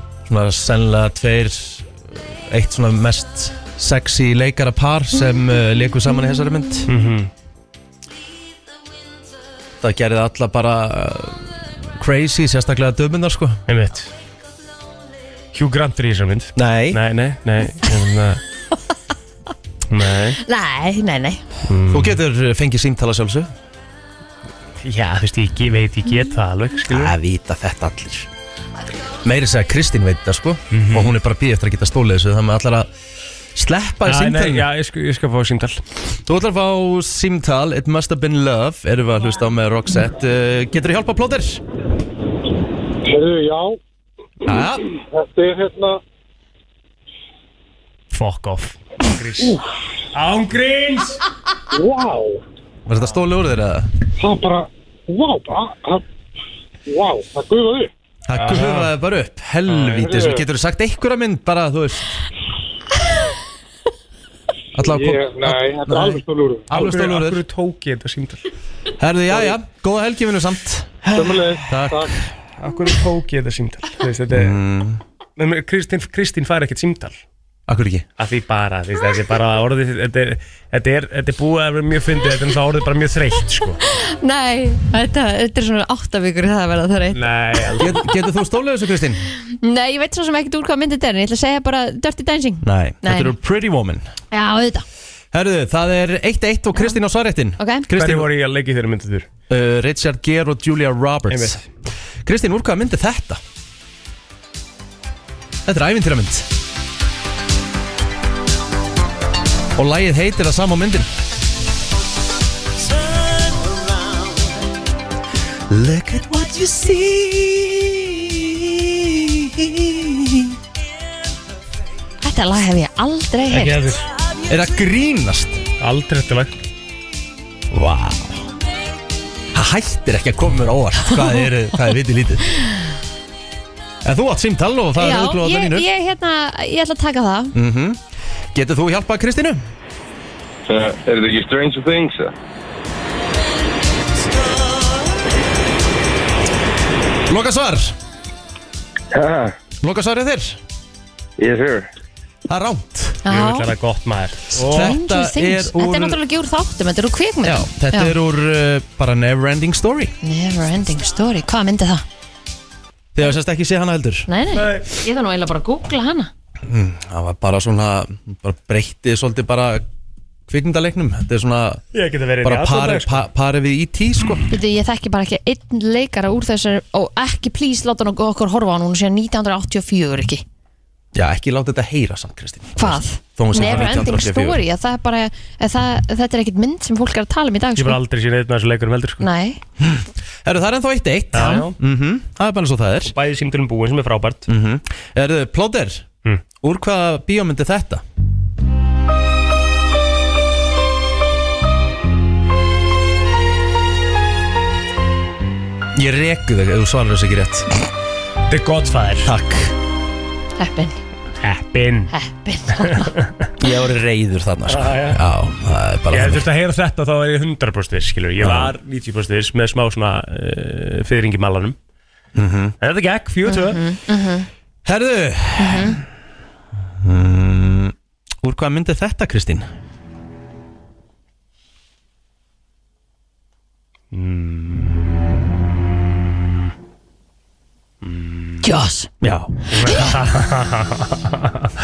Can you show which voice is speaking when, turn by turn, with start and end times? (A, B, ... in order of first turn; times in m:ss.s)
0:00.3-0:06.9 A
0:06.9-0:07.3 B
0:09.8-0:13.6 A
0:13.7-0:14.1 B
0:15.5-0:18.4 B
0:16.6-0:17.0 A
0:19.9-0:20.4 B
0:20.4-0:21.4 C
0:21.6-0:22.2 B
0:21.9-0:23.5 A
0:24.8-0:27.1 B
0:26.8-0:28.3 A
0:29.2-0:32.9 A
0:30.7-0:31.1 B
0:33.5-0:34.7 A
0:34.0-0:35.8 B
0:36.3-0:41.6 A
0:43.0-0:43.8 D
0:44.4-0:44.8 A
0:44.9-0:46.0 D
0:48.1-0:49.6 B
0:50.1-0:51.2 B
0:51.7-0:52.4 D
0:52.9-0:53.9 A
0:54.2-0:56.0 D
0:56.9-0:57.9 D
0:58.3-1:02.2 A
0:58.4-0:58.9 B
0:59.8-1:00.5 D
1:04.7-1:07.4 A
1:04.8-1:06.7 D
1:06.7-1:08.4 B
1:09.0-1:11.0 A
1:11.0-1:11.4 B
1:11.1-1:12.2 D
1:11.7-1:12.2 A
1:12.6-1:14.6 B
1:14.3-1:15.0 A
1:15.4-1:17.1 B
1:17.7-1:18.1 A
1:18.2-1:23.8 B
1:23.8-1:27.2 C
1:27.1-1:28.0 B
1:27.8-1:29.2 A
1:29.6-1:33.3 C
1:32.6-1:34.0 A
1:34.3-1:34.8 C
1:35.3-1:38.3 A
1:37.6-1:37.8 C
1:37.9-1:39.3 B
1:39.5-1:41.6 A
1:41.3-1:41.6 B
1:42.2-1:43.4 A
1:45.6-1:46.5 A
1:49.7-1:51.1 A
1:55.7-2:00.6 A
2:02.2-2:03.9 C
2:03.5-2:04.1 B
2:04.5-2:05.6 A
2:05.8-2:06.5 B
2:07.7-2:08.5 A
2:09.5-2:12.5 A
2:14.0-2:15.8 A
2:15.0-2:17.5 C
2:17.5-2:18.0 A
2:18.5-2:19.6 A
2:20.7-2:22.3 E
2:27.3-2:28.0 A
2:29.1-2:29.5 E
2:29.8-2:30.6 A
2:31.4-2:31.9 E
2:32.5-2:33.2 A
2:33.2-2:33.7 C
2:33.3-2:35.0 B
2:34.5-2:36.2 A
2:34.7-2:38.1 C
2:37.4-2:40.1 A
2:40.2-2:42.0 C
2:43.1-2:44.3 A
2:44.3-2:46.3 C
2:44.5-2:44.9 B
2:46.6-2:49.8 A
2:50.5-2:51.8 A
2:51.9-2:53.2 B
2:52.4-2:54.4 A
2:54.5-3:00.4 C
3:01.1-3:04.6 A
3:02.8-3:08.0 C
3:03.6-3:04.0 B
3:07.8-3:09.2 B
3:09.2-3:09.6 C
3:09.8-3:13.1 A
3:11.3-3:11.7 B
3:13.0-3:14.5 B
3:14.5-3:16.0 A
3:16.6-3:18.0 A
3:25.9-3:27.7 A
3:28.5-3:29.3 B
3:29.2-3:29.7 A
3:30.6-3:31.0 C
3:31.4-3:32.1 B
3:32.1-3:33.1 C
3:32.8-3:33.3 B
3:33.6-3:36.4 A
3:34.7-3:35.2 B
3:36.1-3:41.8 B
3:38.4-3:38.7 A
3:42.3-3:42.7 A
3:42.8-3:43.8 B
3:43.5-3:44.5 C
3:44.8-3:46.0 A
3:45.6-3:46.0 C
3:47.0-3:49.7 A
3:54.1-3:55.0 B
3:58.0-3:58.6 B
3:58.6-3:59.1 C
3:59.2-3:59.5 A
3:59.7-4:01.7 B